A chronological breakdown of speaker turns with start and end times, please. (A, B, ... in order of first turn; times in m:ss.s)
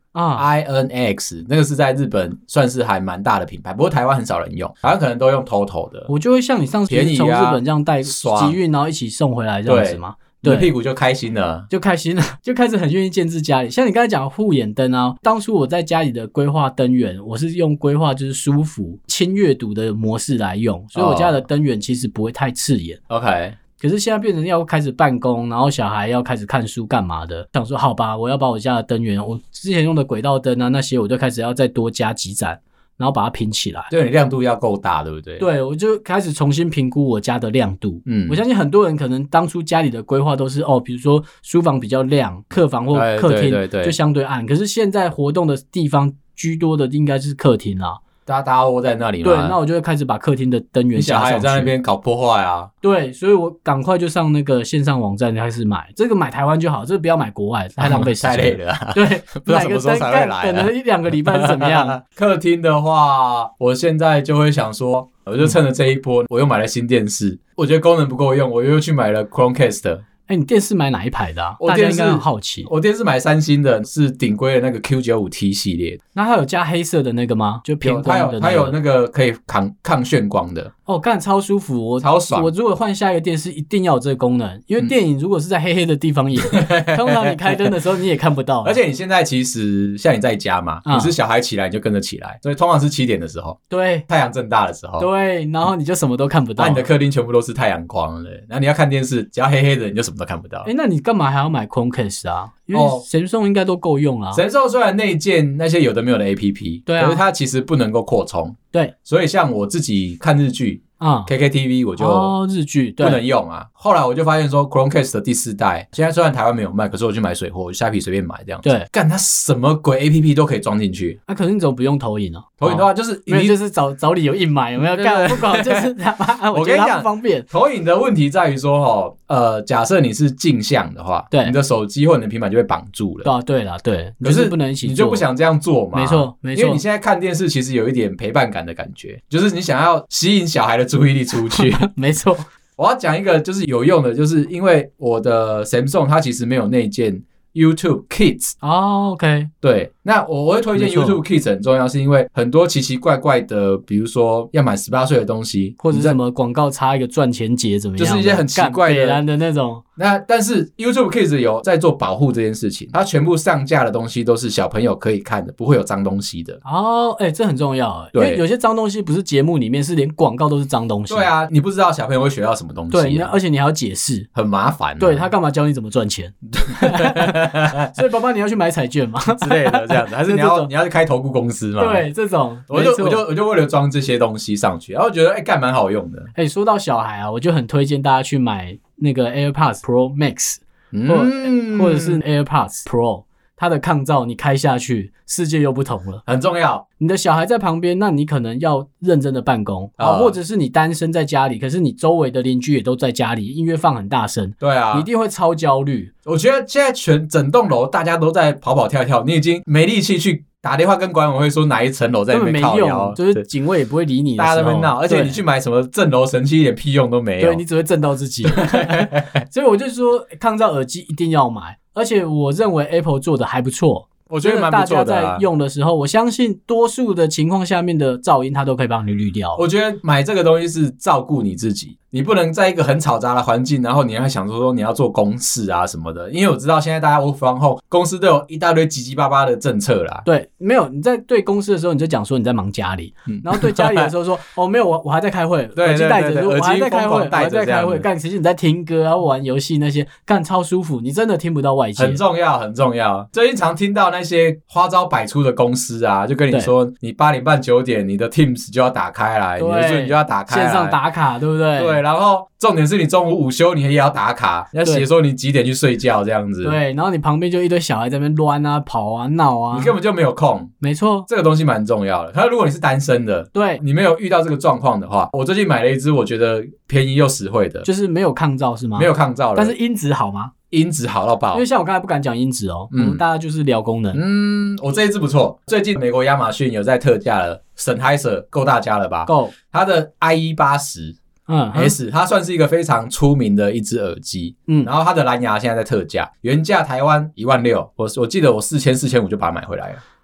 0:00.1-0:00.5 A
0:00.4-0:06.1 B
0:06.1-0:10.7 A
0:06.9-0:08.6 B
0:09.7-0:11.7 B
0:11.7-0:23.0 A
0:20.9-0:21.4 B
0:23.1-0:23.6 B
0:23.8-0:33.9 A
0:33.9-0:35.4 B
0:35.4-0:48.0 A
0:38.0-0:38.4 B
0:42.9-0:44.0 B
0:48.2-0:49.6 B
0:49.2-0:51.7 A
0:50.9-0:52.7 B
0:52.8-1:02.0 A
0:57.8-1:10.0 B
1:10.3-1:12.7 A
1:11.6-1:16.0 B
1:16.1-1:18.8 A
1:17.8-1:20.7 B
1:20.9-1:28.8 A
1:22.0-1:22.5 B
1:26.5-1:27.6 B
1:28.6-1:35.1 B
1:30.8-1:31.1 A
1:33.7-1:34.0 A
1:35.0-1:36.8 A
1:36.6-1:40.7 B
1:40.6-1:44.4 A
1:42.7-1:43.0 B
1:44.3-1:52.3 B
1:46.9-1:47.2 A
1:51.0-1:51.3 A
1:52.0-1:53.2 A
1:53.0-2:01.2 B
1:58.6-1:58.9 A
2:01.3-2:07.5 A
2:02.6-2:03.6 B
2:04.8-2:05.9 B
2:06.5-2:13.3 B
2:11.3-2:11.6 A
2:13.2-2:15.2 A
2:14.2-2:21.8 B
2:15.9-2:16.8 A
2:21.5-2:22.4 A
2:22.8-2:28.6 B
2:28.6-2:29.5 A
2:29.6-2:36.2 B
2:30.7-2:31.2 A
2:35.8-2:39.8 A
2:38.0-2:39.2 B
2:40.0-2:46.6 B
2:46.6-2:51.3 A
2:48.1-2:48.4 B
2:51.1-2:53.3 B
2:52.9-2:54.3 A
2:54.3-2:55.3 B
2:55.0-3:00.7 A
2:56.6-2:57.9 B
2:59.3-3:02.0 B
3:01.8-3:03.2 A
3:02.7-3:06.3 B
3:06.3-3:16.2 A
3:10.9-3:12.2 B
3:16.2-3:16.8 B
3:17.0-3:26.1 A
3:20.0-3:20.4 B
3:24.6-3:25.1 B
3:26.2-3:33.4 B
3:32.3-3:35.4 A
3:34.4-3:37.6 B
3:37.4-3:49.6 A
3:38.4-3:39.4 B
3:44.3-3:45.4 B
3:49.6-4:00.2 B
4:00.2-4:12.2 A
4:03.3-4:04.1 B
4:05.8-4:08.1 B
4:12.0-4:21.0 B
4:19.6-4:22.0 A
4:21.8-4:26.8 B
4:26.6-4:29.9 A
4:29.7-4:30.7 B
4:30.8-4:31.3 A
4:31.3-4:37.8 B
4:33.5-4:33.8 A
4:37.8-4:40.5 A
4:39.0-4:39.8 B
4:40.7-4:41.6 B
4:41.5-4:44.2 A
4:42.9-4:43.2 B
4:44.1-4:51.2 B
4:49.2-4:49.5 A
4:51.5-4:52.0 A
4:51.7-5:00.0 B